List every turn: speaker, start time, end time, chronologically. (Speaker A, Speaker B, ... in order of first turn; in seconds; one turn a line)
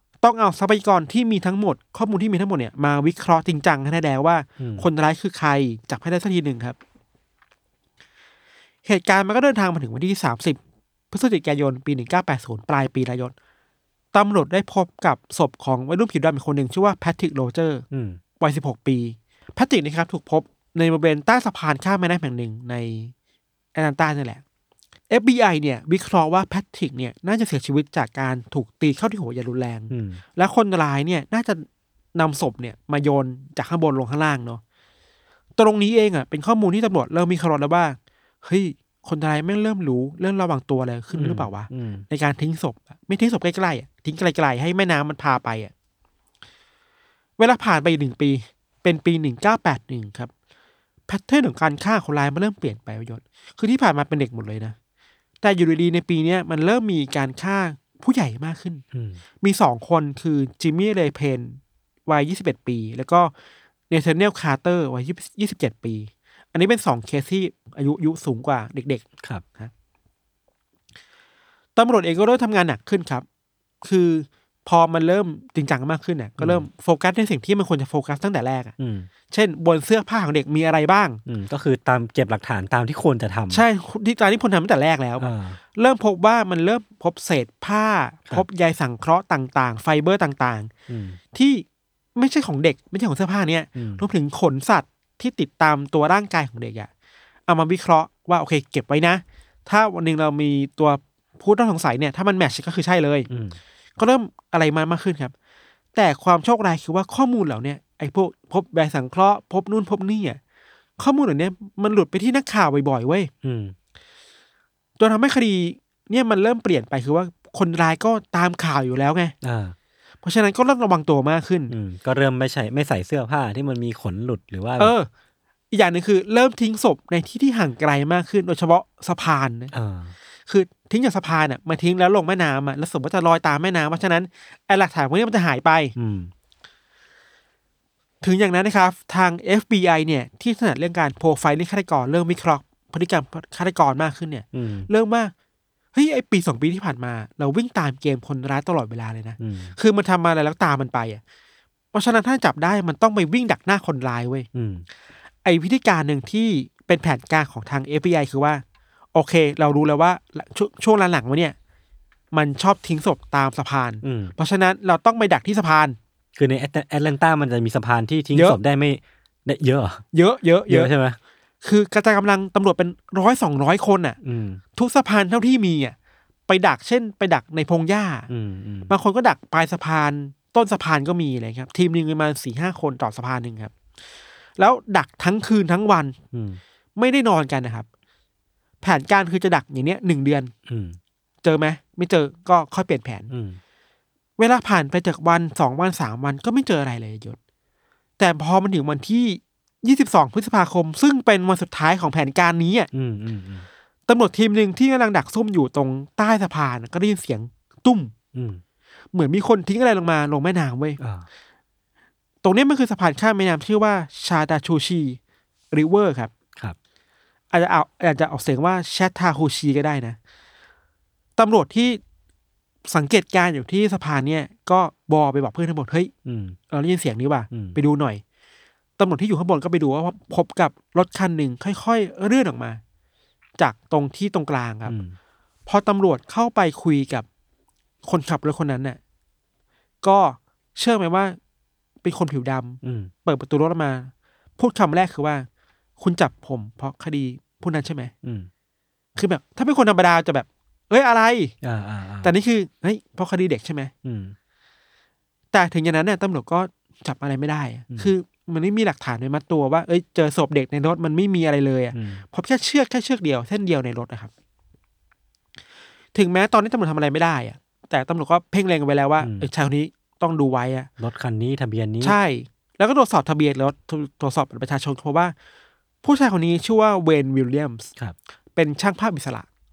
Speaker A: 0.2-6.8
Speaker B: 4.6-4.9
Speaker A: 8.8-10.6
Speaker A: 11.1-13.3
Speaker A: 14.1-17.9
Speaker B: 17.9-18.2
Speaker A: 18.4-23.1
Speaker A: 23.8-24.4
Speaker A: 25.1-34.6
Speaker B: 29.9-30.2
Speaker A: 35.6-45.7
Speaker B: 41.1-42.0
Speaker A: 47.4-50.3
Speaker A: 51.1-54.8
Speaker A: 55.4-58.8
Speaker B: 58.9-59.2
Speaker A: 59.4-63.3
Speaker A: 63.9-69.1
Speaker A: 71.8-73.2
Speaker A: 73.8-78.7
Speaker B: 76.4-76.7
Speaker B: 78.8-79.1
Speaker A: 79.3-81.2
Speaker B: 81.3-83.7
Speaker A: 83.5-90.7
Speaker B: 85.2-85.6
Speaker B: 90.9-91.2
Speaker A: 91.3-91.7
Speaker A: 92.2-96.9
Speaker B: 93.8-94.0
Speaker A: 97.5-103.3
Speaker B: 103.3-103.6
Speaker A: 104.0-105.3
Speaker A: 106.0-110.4
Speaker A: 111.0-113.3
Speaker B: 113.4-113.8
Speaker A: 115.0-119.3
Speaker B: 119.4-119.8
Speaker A: 120.2-121.7
Speaker B: 121.7-124.9
Speaker A: 124.8-125.1
Speaker A: 125.7-129.7
Speaker B: 129.7-130.1
Speaker A: 130.5-135.9
Speaker B: 136.0-136.3
Speaker A: 138.2-145.3
Speaker B: 144.5-144.9
Speaker A: 145.9-151.2
Speaker B: 149.4-149.8
Speaker A: 151.9-154.5
Speaker B: 154.5-154.8
Speaker A: 155.4-158.6
Speaker A: 159.1-161.6
Speaker A: 162.3-166.0
Speaker B: 164.0-164.3
Speaker B: 166.4-170.0
Speaker A: 170.1-170.9
Speaker B: 170.7-171.2
Speaker A: 171.6-174.2
Speaker B: 174.2-174.6
Speaker A: 174.8-175.9
Speaker A: 176.5-178.3
Speaker B: 178.3-179.0
Speaker A: 178.9-183.7
Speaker A: 184.6-186.2
Speaker B: 186.3-186.6
Speaker A: 187.0-187.9
Speaker A: 188.8-190.5
Speaker B: 190.7-191.0
Speaker A: 191.4-193.3
Speaker B: 193.3-193.6
Speaker A: 194.4-197.4
Speaker A: 198.2-202.9
Speaker B: 202.9-203.7
Speaker A: 204.1-208.1
Speaker B: 208.3-208.6
Speaker A: 209.1-211.0
Speaker B: 211.0-211.3
Speaker A: 212.4-215.2
Speaker A: 215.7-216.3
Speaker A: 217.5-220.2
Speaker A: 221.4-222.0
Speaker A: 222.9-226.1
Speaker B: 226.2-226.6
Speaker A: 226.7-228.2
Speaker B: 227.5-227.8
Speaker A: 229.0-232.8
Speaker A: 233.6-235.0
Speaker B: 234.9-235.2
Speaker A: 235.7-237.3
Speaker A: 238.1-239.0
Speaker A: 240.0-241.4
Speaker A: 242.0-245.5
Speaker B: 242.8-243.1
Speaker A: 246.0-248.1
Speaker B: 248.2-248.5
Speaker A: 249.2-251.5
Speaker B: 251.6-252.3
Speaker A: 252.2-253.9
Speaker B: 254.1-254.3
Speaker A: 255.5-264.3
Speaker B: 261.9-262.2
Speaker A: 266.1-270.9
Speaker B: 269.2-269.5
Speaker B: 271.0-272.2
Speaker A: 272.0-275.3
Speaker A: 276.0-277.9
Speaker A: 278.6-279.5